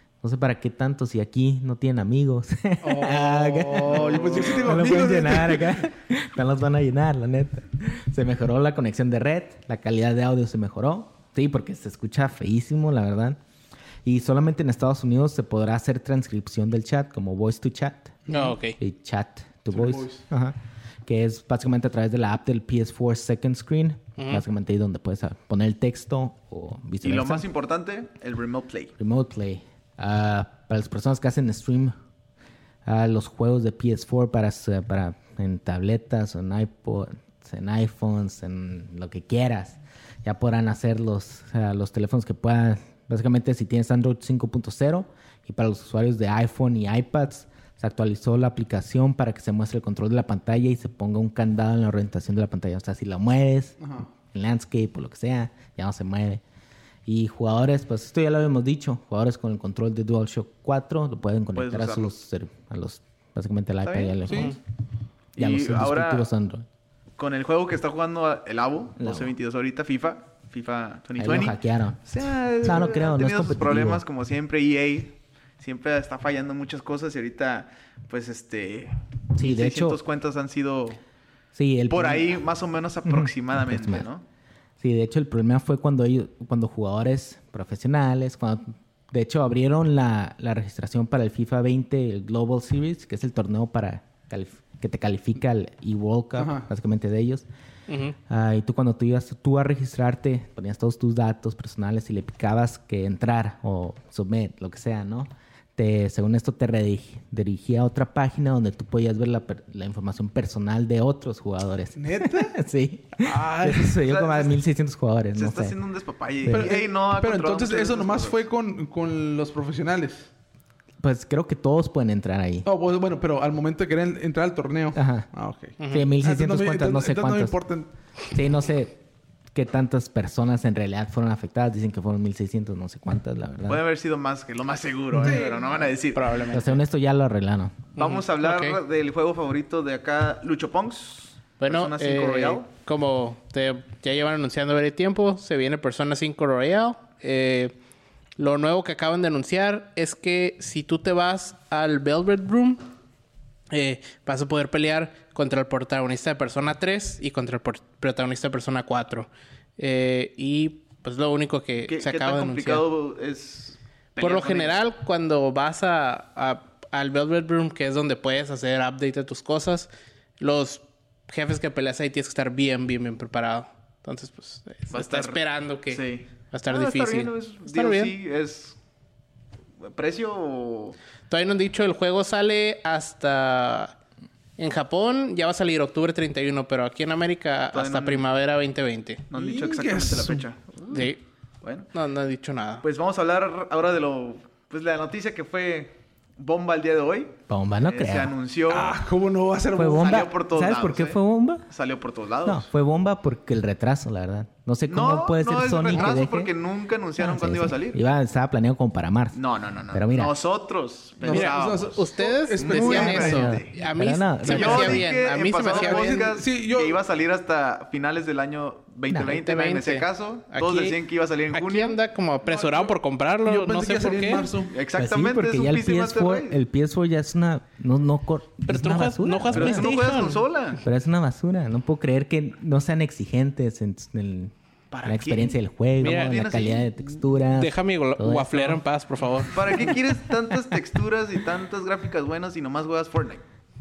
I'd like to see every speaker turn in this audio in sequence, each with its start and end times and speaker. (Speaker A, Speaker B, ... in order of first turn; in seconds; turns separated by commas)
Speaker A: 0.2-13.4, Speaker B: 2.8-5.8, Speaker C: 3.9-5.5, Speaker A: 14.1-18.2, Speaker B: 18.3-18.6, Speaker D: 18.3-18.8, Speaker A: 18.8-20.6, Speaker B: 19.7-20.2, Speaker A: 21.1-27.5, Speaker D: 24.2-24.4, Speaker C: 27.0-28.9, Speaker A: 29.0-31.9, Speaker A: 32.9-53.8, Speaker B: 53.8-54.1, Speaker A: 54.3-56.4, Speaker A: 57.1-64.6, Speaker C: 61.5-62.1, Speaker C: 63.8-64.5, Speaker B: 64.3-64.6, Speaker C: 65.4-66.3, Speaker A: 65.4-66.7, Speaker C: 67.2-81.0, Speaker A: 69.0-69.3, Speaker A: 71.2-72.0, Speaker A: 72.6-74.0, Speaker A: 79.3-80.0, Speaker A: 81.5-82.4, Speaker C: 81.9-84.2, Speaker A: 83.0-84.1, Speaker A: 84.8-97.5, Speaker B: 96.3-96.7, Speaker D: 97.9-98.2, Speaker A: 98.3-115.8, Speaker B: 112.0-112.6, Speaker B: 113.2-114.0, Speaker C: 114.1-114.5, Speaker C: 115.3-118.4, Speaker A: 116.4-116.8, Speaker B: 116.5-120.3, Speaker A: 121.0-122.7, Speaker B: 122.7-127.9, Speaker A: 124.9-125.3, Speaker D: 125.8-126.1, Speaker A: 125.9-127.6, Speaker A: 128.3-129.0, Speaker A: 129.5-133.8, Speaker C: 133.7-136.6, Speaker A: 135.1-135.4, Speaker B: 135.2-135.9, Speaker D: 136.1-136.8, Speaker A: 136.5-137.8, Speaker C: 138.0-142.7, Speaker D: 138.0-138.8, Speaker D: 141.6-147.8, Speaker D: 148.4-152.8, Speaker D: 153.7-162.8, Speaker C: 161.9-164.7, Speaker D: 164.2-178.1, Speaker C: 174.9-178.8, Speaker C: 179.9-181.0, Speaker D: 181.3-183.9, Speaker D: 184.6-189.2, Speaker C: 187.7-188.2, Speaker C: 189.3-191.1, Speaker B: 189.3-190.5, Speaker D: 190.9-191.2, Speaker C: 191.6-191.9, Speaker D: 191.9-192.8, Speaker C: 192.8-199.0, Speaker A: 197.5-198.3, Speaker B: 198.7-200.3, Speaker A: 199.8-201.7, Speaker C: 199.9-202.7, Speaker A: 202.4-206.5, Speaker C: 204.9-208.0, Speaker A: 207.2-209.4, Speaker C: 209.3-213.8, Speaker A: 209.9-210.4, Speaker B: 211.2-213.6, Speaker D: 211.3-216.2, Speaker A: 213.3-215.0, Speaker C: 214.4-222.0, Speaker B: 215.7-217.0, Speaker A: 219.1-219.4, Speaker D: 219.2-221.0, Speaker D: 221.5-224.6, Speaker B: 222.4-224.8, Speaker C: 224.7-226.6, Speaker A: 224.9-230.1, Speaker D: 228.7-230.4, Speaker C: 229.5-230.8, Speaker A: 230.8-234.5, Speaker C: 234.9-236.9, Speaker A: 235.1-238.8, Speaker D: 236.0-236.4, Speaker D: 237.5-239.8, Speaker C: 239.5-243.4